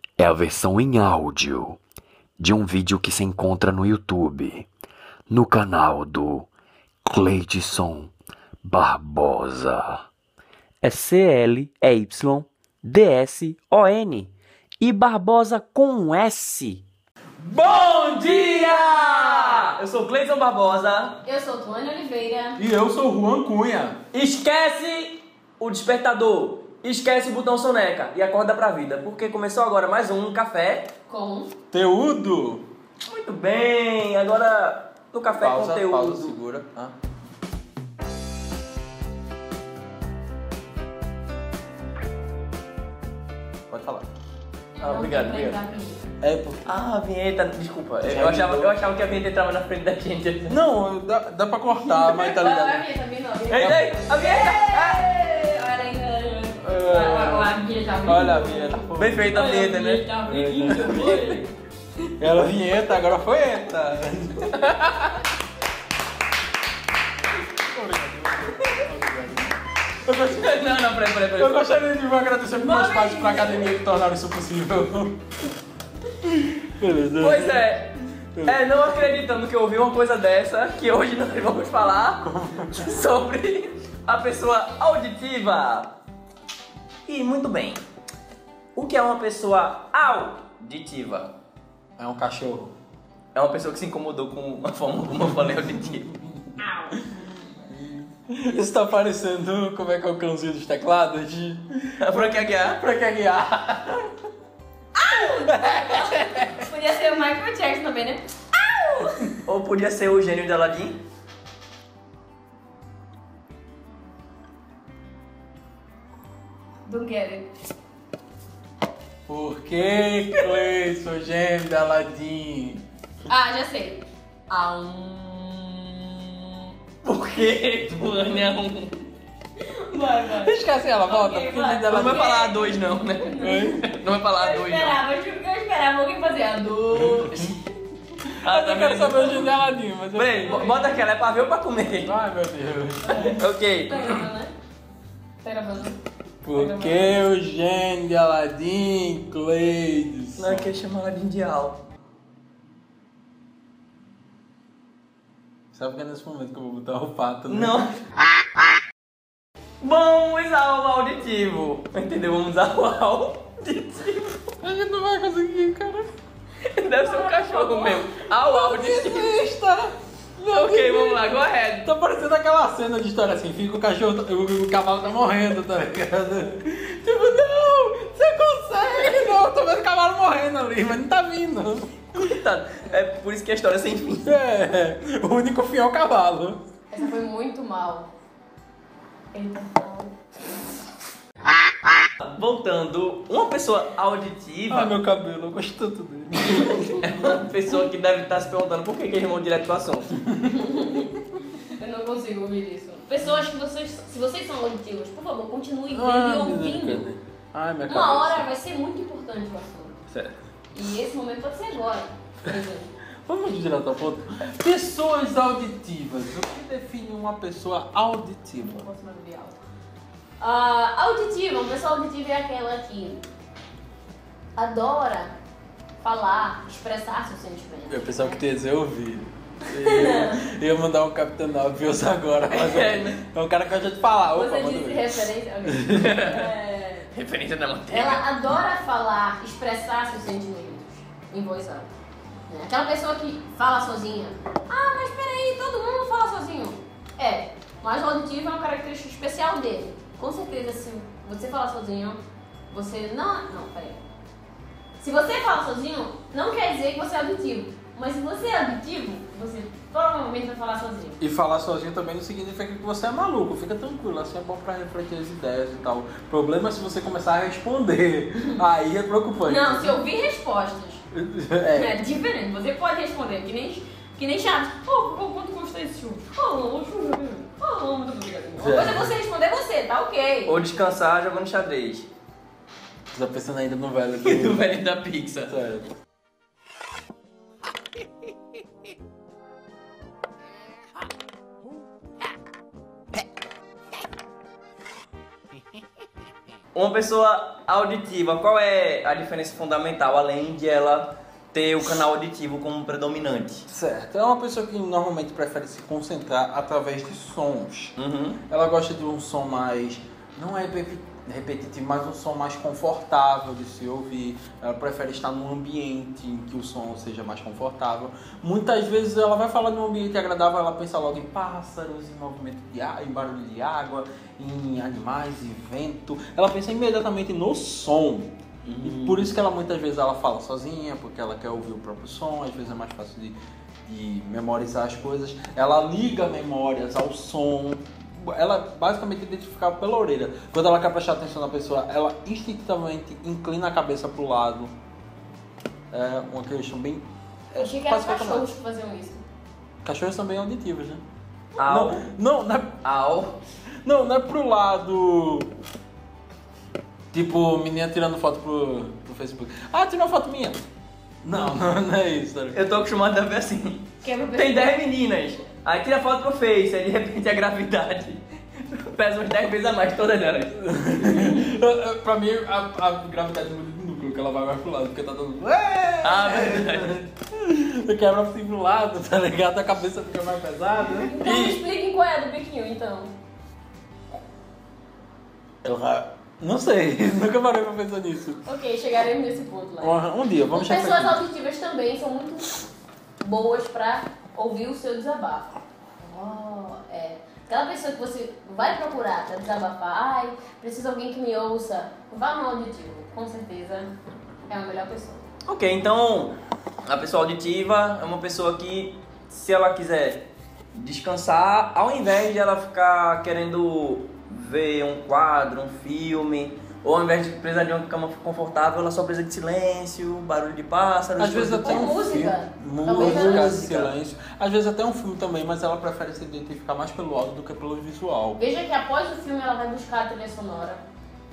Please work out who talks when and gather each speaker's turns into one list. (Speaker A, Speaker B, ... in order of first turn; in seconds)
Speaker A: 0.2-1.8, 2.4-4.7, 5.3-6.5, 7.0-8.1, 8.6-10.0
Speaker B: 10.8-14.3, 14.8-16.8, 17.4-21.2, 24.1-30.9, 33.0-36.4, 44.8-45.6, 46.6-50.6, 53.5-55.0, 59.0-60.1, 60.8-61.2, 70.1-71.7, 77.2-77.9, 78.4-86.0, 87.0-87.8, 88.7-91.3, 93.3-96.1, 102.0-102.8, 109.4-111.0, 127.0-129.0, 131.9-135.0, 138.4-139.5, 140.1-142.1, 143.3-144.2, 150.4-151.8, 157.5-157.9, 159.8-164.4, 166.7-169.3, 170.5-171.9, 182.2-184.4, 192.2-194.9, 197.0-200.2, 232.5-233.2, 235.9-236.5, 237.1-238.3, 280.4-282.1, 284.2-285.5, 296.7-303.7, 308.0-308.4, 328.6-329.3, 351.5-352.0, 352.8-353.4, 362.5-370.6, 376.0-376.9, 381.2-381.6, 405.4-422.0, 422.9-423.9
Speaker C: 17.7-18.3, 22.6-24.0, 31.7-32.6, 35.4-36.9, 43.7-44.0, 46.2-46.7, 48.0-48.7, 50.5-52.9, 56.6-59.4, 60.2-61.4, 62.2-65.1, 67.6-69.5, 70.2-70.6, 71.3-75.2, 76.2-77.7, 78.3-78.7, 82.2-82.9, 92.0-92.7, 96.3-96.5, 97.1-104.1, 105.1-106.7, 119.3-122.8, 130.3-132.3, 133.4-133.8, 136.9-137.6, 138.3-140.7, 142.0-143.4, 146.4-150.7, 155.7-157.8, 164.6-166.1, 168.3-182.2, 184.2-186.6, 194.7-197.0, 200.2-200.5, 205.9-208.5, 213.2-218.9, 227.9-235.1, 235.7-236.2, 261.2-270.0, 271.1-272.0, 278.6-279.1, 283.1-284.8, 285.4-285.9, 303.7-307.9, 308.5-344.7, 345.9-348.5, 349.8-351.0, 351.6-352.8, 353.8-355.5, 357.1-360.6, 361.2-362.6, 370.6-381.1, 385.6-388.4, 389.8-391.2, 421.2-428.4
Speaker D: 21.2-22.6, 31.1-31.5, 44.8-46.0, 51.7-61.5, 72.6-73.7, 96.6-97.0, 104.9-109.3, 116.8-117.5, 123.3-126.6, 129.6-133.7, 134.3-137.6, 140.4-140.9, 143.0-144.5, 145.4-146.0, 146.5-147.2, 166.9-168.2, 186.9-188.1, 189.3-190.1, 200.4-201.1, 201.7-207.1, 207.9-209.9, 210.7-212.9, 218.6-219.6, 220.4-223.2, 224.6-225.3, 226.0-228.4, 229.7-230.4, 234.3-237.1, 237.9-241.9, 242.5-254.0, 255.0-261.2, 269.4-271.0, 271.7-280.6, 347.6-349.2, 364.0-364.8, 380.9-383.1, 388.4-390.0, 390.5-392.6, 393.2-403.9, 404.5-405.2, 421.6-423.8, 428.4-430.8